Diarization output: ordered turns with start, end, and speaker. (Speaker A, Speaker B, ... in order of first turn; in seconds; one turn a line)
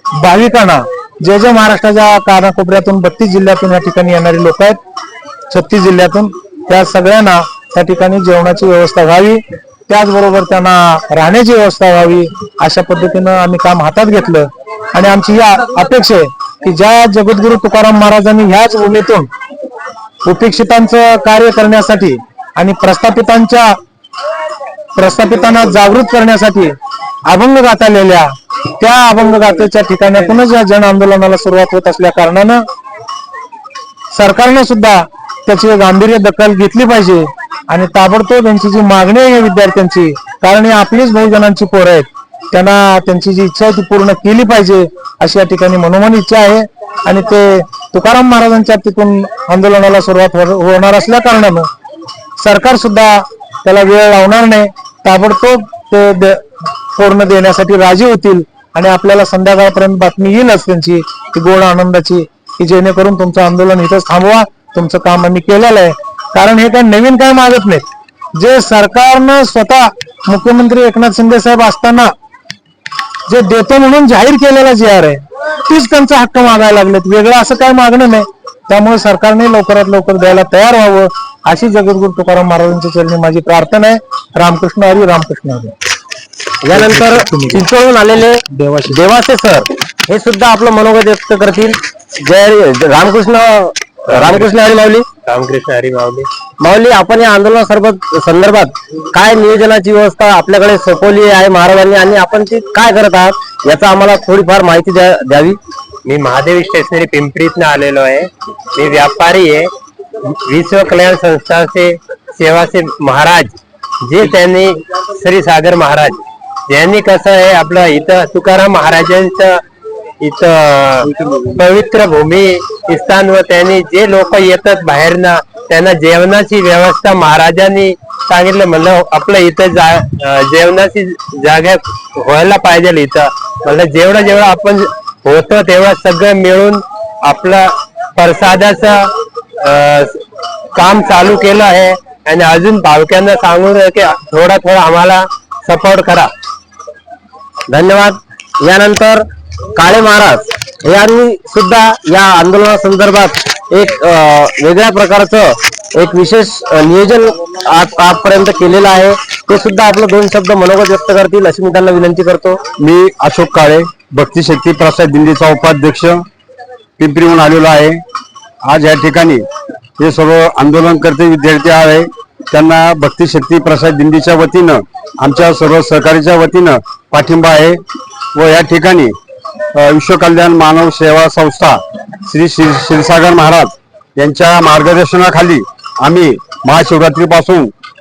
Speaker A: 0.2-4.8
Speaker A: 5.5-19.3
Speaker A: 20.2-23.8
Speaker A: 25.0-26.8
Speaker A: 27.3-32.6
Speaker A: 34.1-51.7
Speaker A: 52.4-56.4
Speaker A: 57.0-72.1
Speaker A: 73.3-85.7
Speaker B: 86.6-95.1
Speaker A: 86.7-87.6
Speaker A: 88.5-89.0
Speaker C: 94.2-94.5
Speaker C: 95.2-96.3
Speaker B: 96.6-105.6
Speaker C: 106.1-109.7
Speaker C: 110.3-119.6
Speaker C: 120.2-140.2
Speaker C: 140.7-146.3
Speaker B: 147.7-162.6
Speaker D: 162.8-166.2
Speaker D: 167.0-168.0
Speaker D: 168.6-169.5
Speaker D: 170.0-177.8
Speaker D: 178.3-179.2
Speaker D: 179.8-187.7